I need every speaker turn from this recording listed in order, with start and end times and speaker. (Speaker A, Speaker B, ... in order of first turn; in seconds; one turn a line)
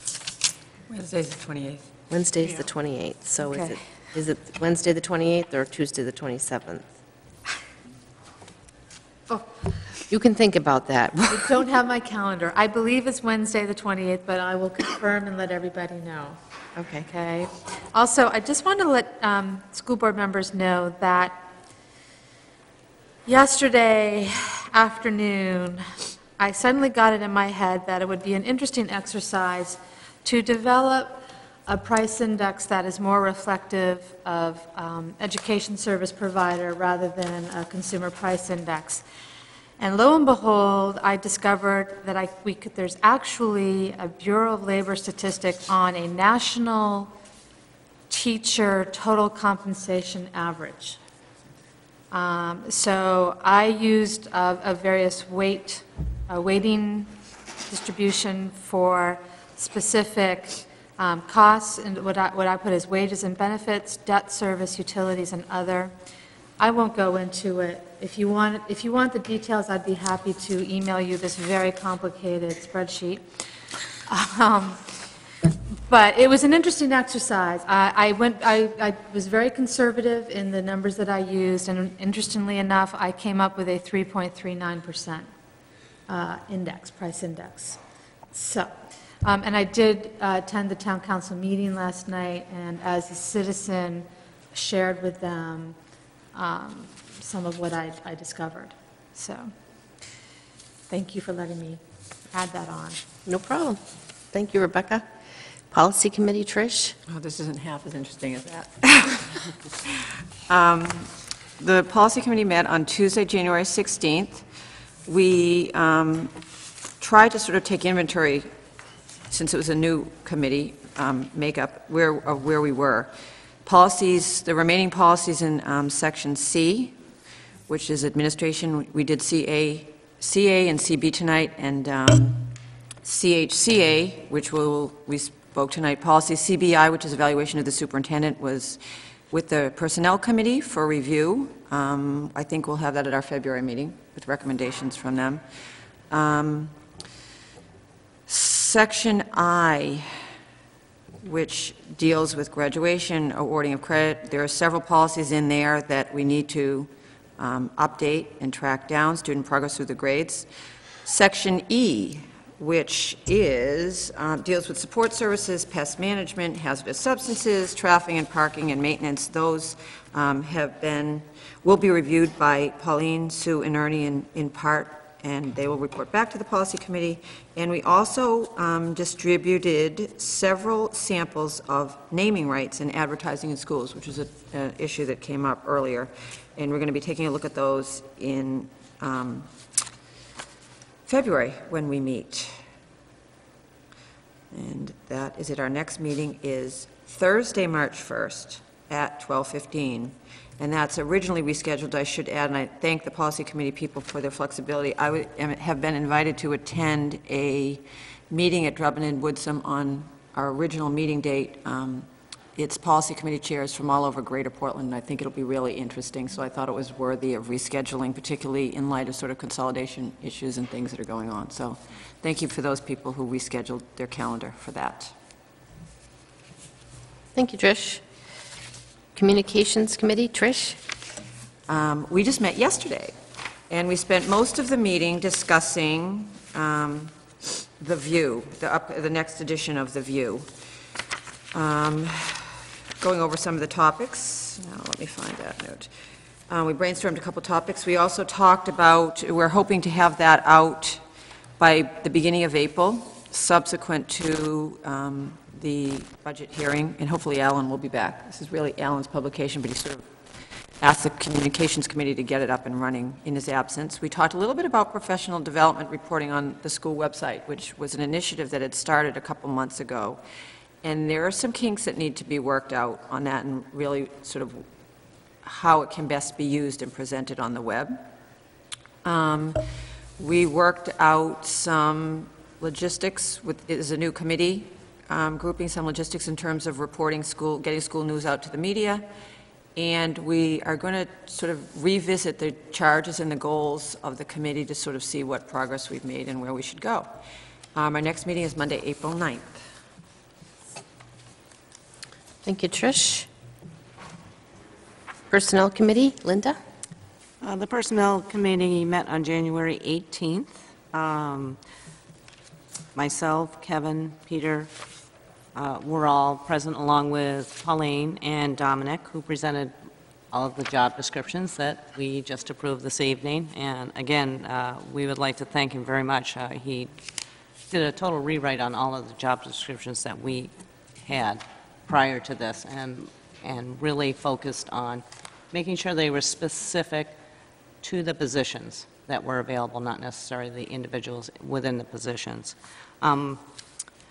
Speaker A: 0.9-1.8
Speaker B: 2.1-6.8
Speaker C: 3.4-3.8
Speaker B: 10.1-11.6
Speaker C: 11.3-16.4
Speaker B: 16.7-17.1
Speaker C: 17.1-21.4
Speaker C: 23.2-39.0
Speaker C: 39.8-47.1
Speaker C: 48.1-51.0
Speaker C: 52.1-57.1
Speaker C: 57.7-65.9
Speaker C: 66.6-73.3
Speaker C: 74.1-74.8
Speaker C: 75.9-85.3
Speaker C: 86.1-87.8
Speaker C: 88.3-88.7
Speaker C: 89.2-95.8
Speaker C: 96.3-99.5
Speaker C: 100.9-101.8
Speaker C: 102.3-103.0
Speaker B: 103.2-103.8
Speaker B: 104.3-105.1
Speaker B: 105.7-106.9
Speaker A: 107.1-114.4
Speaker A: 115.0-116.3
Speaker A: 117.0-118.5
Speaker A: 119.3-123.1
Speaker A: 123.6-127.0
Speaker A: 127.7-132.5
Speaker A: 133.0-145.4
Speaker A: 146.1-146.7
Speaker A: 148.3-150.2
Speaker A: 151.2-160.5
Speaker A: 161.0-189.5
Speaker A: 191.0-192.6
Speaker A: 194.5-225.1
Speaker B: 227.3-228.0
Speaker B: 229.1-230.8
Speaker A: 231.7-233.1
Speaker A: 233.7-237.2
Speaker A: 237.8-240.5
Speaker A: 241.5-245.9
Speaker A: 246.5-251.0
Speaker A: 251.6-260.1
Speaker A: 260.8-270.2
Speaker A: 270.8-274.6
Speaker A: 275.4-278.0
Speaker A: 279.0-279.6
Speaker A: 280.2-289.0
Speaker A: 289.7-297.1
Speaker A: 297.7-299.6
Speaker B: 302.4-303.3
Speaker B: 305.3-306.6
Speaker D: 307.4-311.6
Speaker D: 312.9-314.7
Speaker D: 315.5-319.7
Speaker D: 320.3-326.9
Speaker D: 327.7-337.1
Speaker D: 337.8-343.4